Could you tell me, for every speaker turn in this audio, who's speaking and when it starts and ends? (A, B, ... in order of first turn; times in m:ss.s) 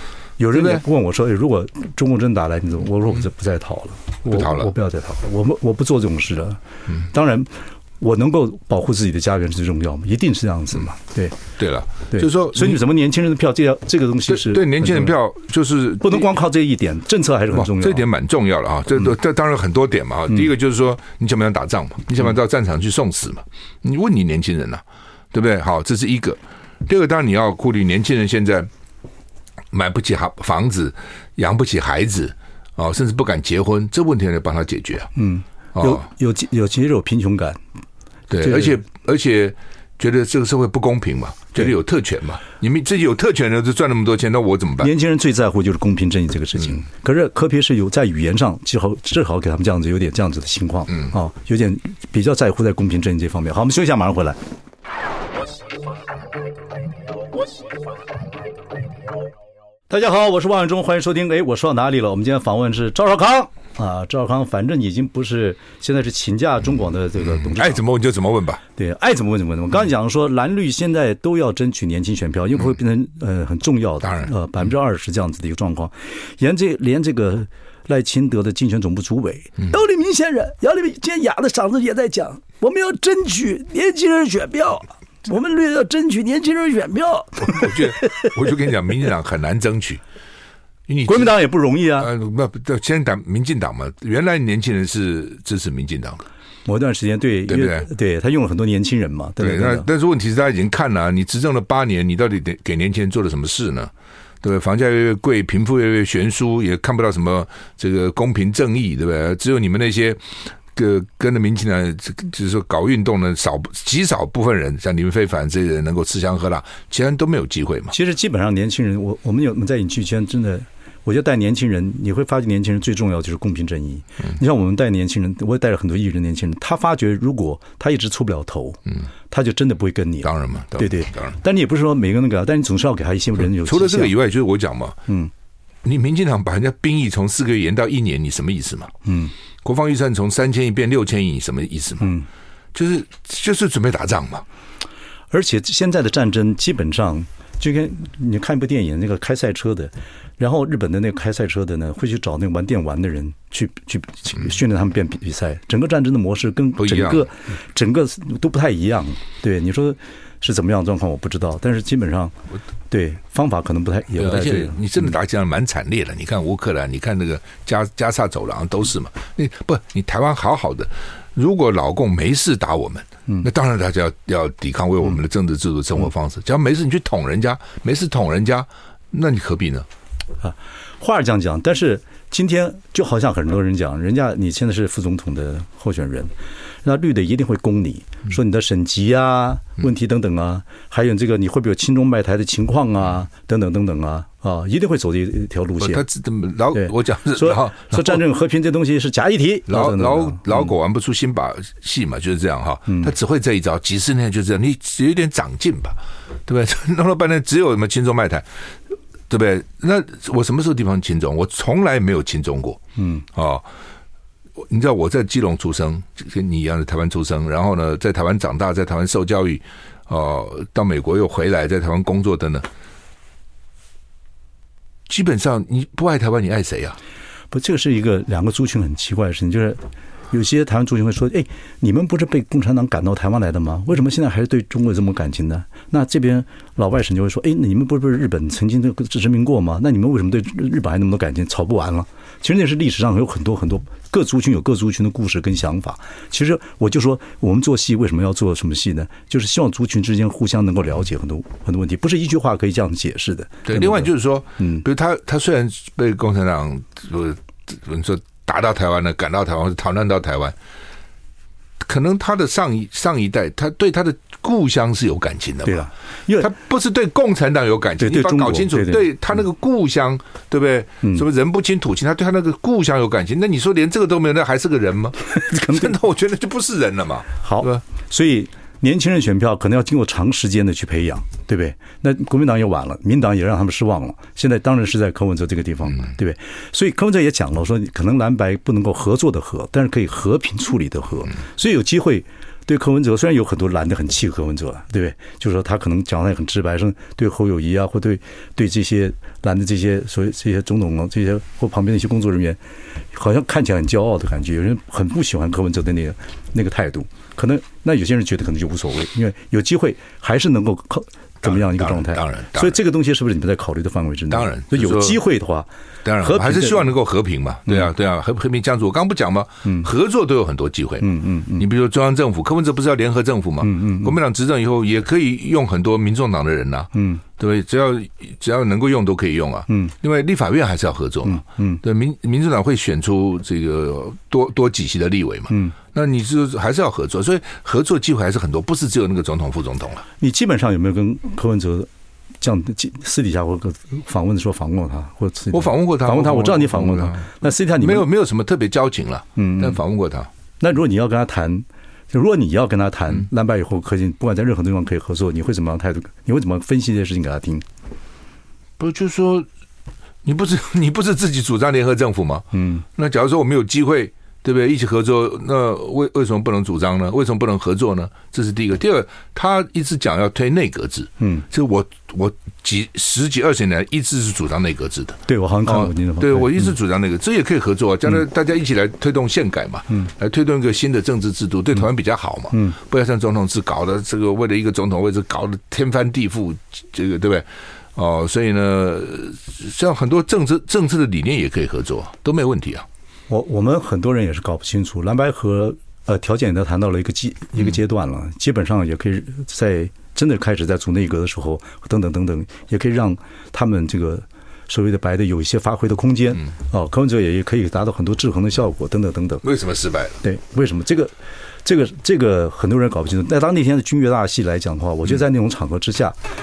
0:00.4-0:11.4 A
0:00.5-0:00.8 B
0:04.2-0:04.7 B
0:11.6-0:12.8 B
0:12.1-0:15.2 A
0:14.3-0:16.3 B
0:16.0-0:18.0 A
0:17.5-0:28.7 B
0:29.7-0:35.1 B
0:35.1-0:37.6 A
0:35.8-0:36.0 B
0:38.3-0:44.9 B
0:38.4-0:38.8 A
0:44.8-0:54.4 A
0:59.9-1:07.8 A
1:07.3-1:08.6 B
1:08.8-1:28.4 A
1:27.4-1:30.0 B
1:30.9-1:31.3 B
1:31.0-1:32.1 A
1:32.0-1:36.2 B
1:36.6-1:39.9 A
1:37.5-1:37.9 B
1:39.4-1:43.9 B
1:44.4-1:50.2 B
1:50.7-1:57.9 B
1:57.9-2:14.1 A
2:10.2-2:11.3 B
2:13.4-2:15.0 B
2:15.8-2:18.9 B
2:19.0-2:19.3 A
2:19.6-2:22.1 B
2:22.0-2:22.2 A
2:22.7-2:24.4 B
2:25.3-2:42.3 A
2:36.8-2:37.3 B
2:42.9-2:44.8 A
2:44.2-2:59.9 B
3:00.4-3:06.3 A
3:06.8-3:16.0 A
3:15.8-3:18.2 B
3:16.7-3:20.6 A
3:19.7-3:28.5 B
3:22.9-3:23.1 A
3:29.3-3:32.8 B
3:33.0-3:33.2 A
3:33.3-3:33.7 B
3:34.6-3:42.7 B
3:45.1-3:47.0 B
3:47.5-4:14.8 A
4:13.6-4:20.5 B
4:21.8-4:25.9 B
4:25.6-4:26.5 A
4:26.4-4:37.8 B
4:28.0-4:29.1 A
4:35.3-4:35.9 A
4:37.4-5:02.6 A
5:03.1-5:15.7 A
5:11.4-5:12.8 B
5:14.3-5:15.2 B
5:16.0-5:40.0 B
5:16.2-5:16.9 A
5:21.0-5:21.6 A
5:23.6-5:24.2 A
5:26.9-5:27.2 A
5:29.7-5:29.9 A
5:31.2-5:31.8 A
5:35.5-5:35.7 A
5:40.2-5:41.9 A
5:42.4-5:48.1 A
5:45.5-5:50.3 B
5:49.4-5:49.8 A
5:50.6-5:57.6 A
5:58.8-5:59.5 B
6:00.2-6:32.8 B
6:02.5-6:02.8 A
6:11.2-6:11.4 A
6:15.3-6:16.7 A
6:22.5-6:22.8 A
6:33.3-6:49.4 A
6:49.4-6:50.2 B
6:50.2-6:51.1 A
6:51.6-6:56.2 A